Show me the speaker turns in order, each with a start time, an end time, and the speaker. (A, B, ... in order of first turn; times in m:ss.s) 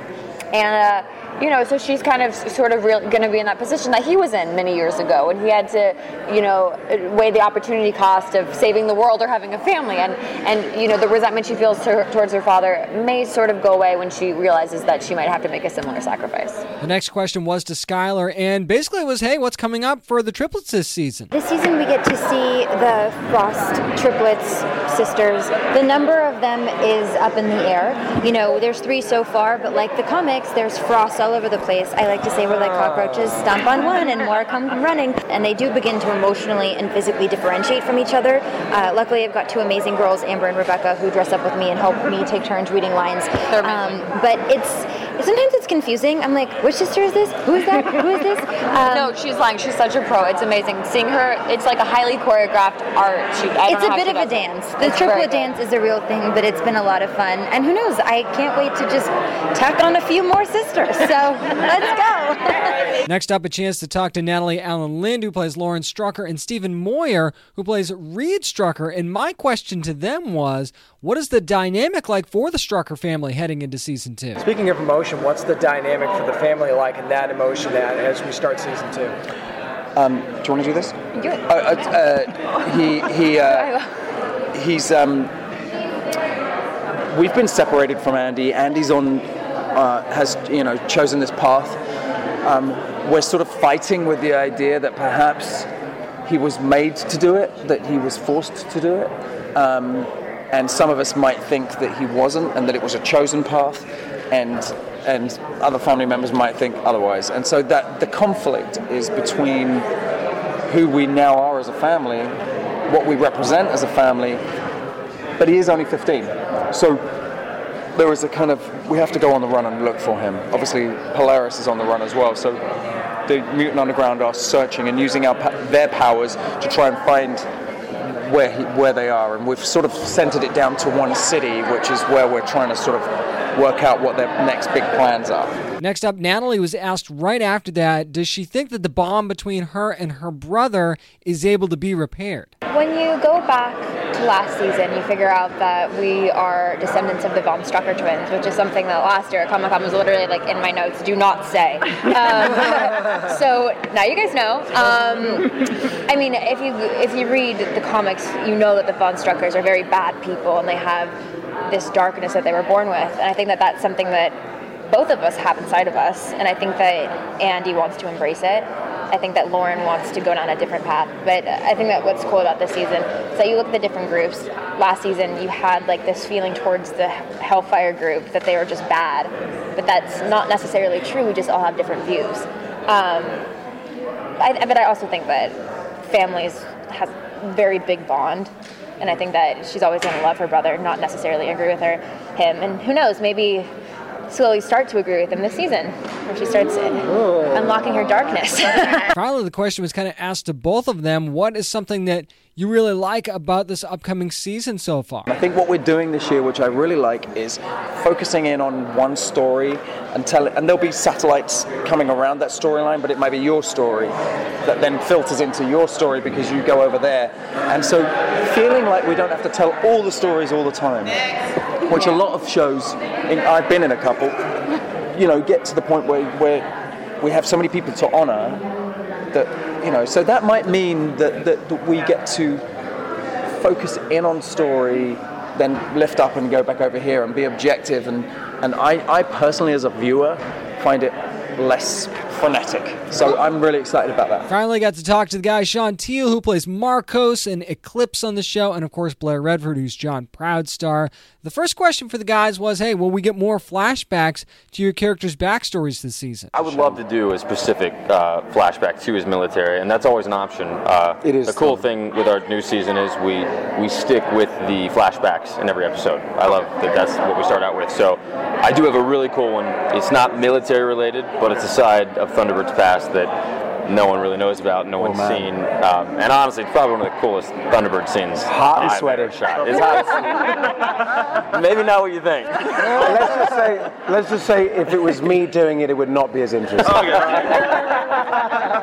0:00.5-0:16.6 A
0:16.8-0:21.3 B
0:21.3-0:49.1 C
0:43.5-0:44.0 A
0:48.8-0:55.5 A
0:53.6-1:02.8 C
1:03.1-1:14.4 B
1:14.4-1:19.2 D
1:20.0-1:23.8 E
1:24.5-1:25.3 E
1:27.1-1:31.8 E
1:32.4-1:35.7 E
1:36.3-1:49.9 E
1:50.7-1:52.4 E
1:52.9-1:54.4 E
1:55.4-1:57.0 E
1:58.0-2:02.6 E
2:03.3-2:07.5 E
2:08.0-2:15.6 E
2:15.8-2:22.5 B
2:22.7-2:35.5 A
2:36.1-2:41.2 A
2:41.7-2:44.4 A
2:44.9-3:03.4 A
3:04.4-3:13.7 A
3:14.3-3:19.1 A
3:19.2-3:25.3 B
3:25.3-3:41.2 E
3:41.9-3:44.4 E
3:45.1-3:46.7 E
3:47.2-3:48.6 E
3:49.3-3:52.6 E
3:53.6-4:04.5 E
4:04.5-4:16.8 B
4:16.5-4:40.5 F
4:16.7-4:17.0 G
4:21.2-4:21.9 G
4:35.0-4:35.5 G
4:38.4-4:40.4 G
4:41.5-4:43.2 F
4:42.8-4:47.6 G
4:46.8-4:47.7 F